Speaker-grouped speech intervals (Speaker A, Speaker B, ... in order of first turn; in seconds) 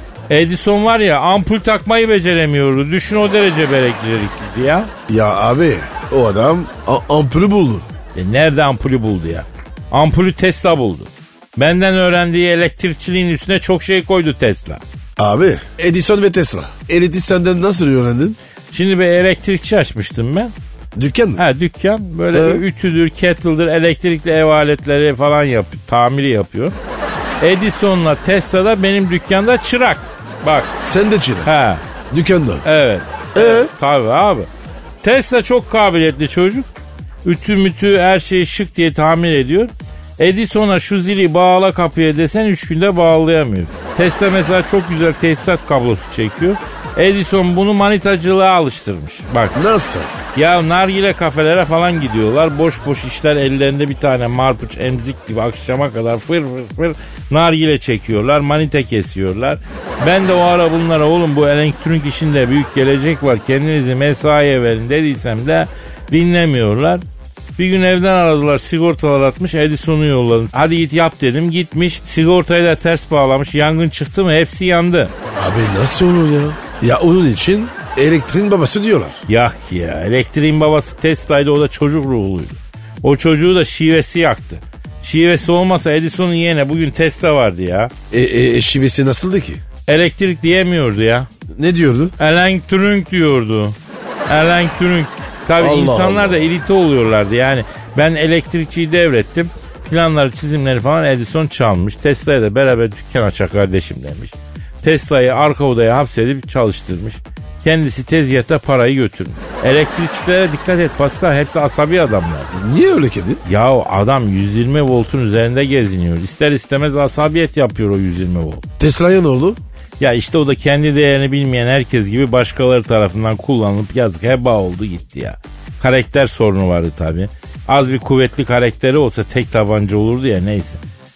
Speaker A: 0.3-4.9, 8.1-14.8, 18.7-20.5, 21.4-26.8, 27.4-30.7, 31.4-31.8, 32.6-34.5, 35.0-36.7, 37.2-49.5, 50.3-67.0, 67.6-75.1, 79.3-87.9, 89.9-91.3, 92.2-93.8, 94.3-112.5, 113.4-118.6, 120.0-130.8
Speaker B: 5.1-7.8, 15.2-18.4, 20.9-21.4, 22.3-22.6, 30.8-31.5, 32.1-32.6, 33.4-33.7, 49.5-50.2, 75.4-79.2, 88.1-89.6, 91.5-92.1, 95.6-96.5, 112.5-113.4, 118.8-119.6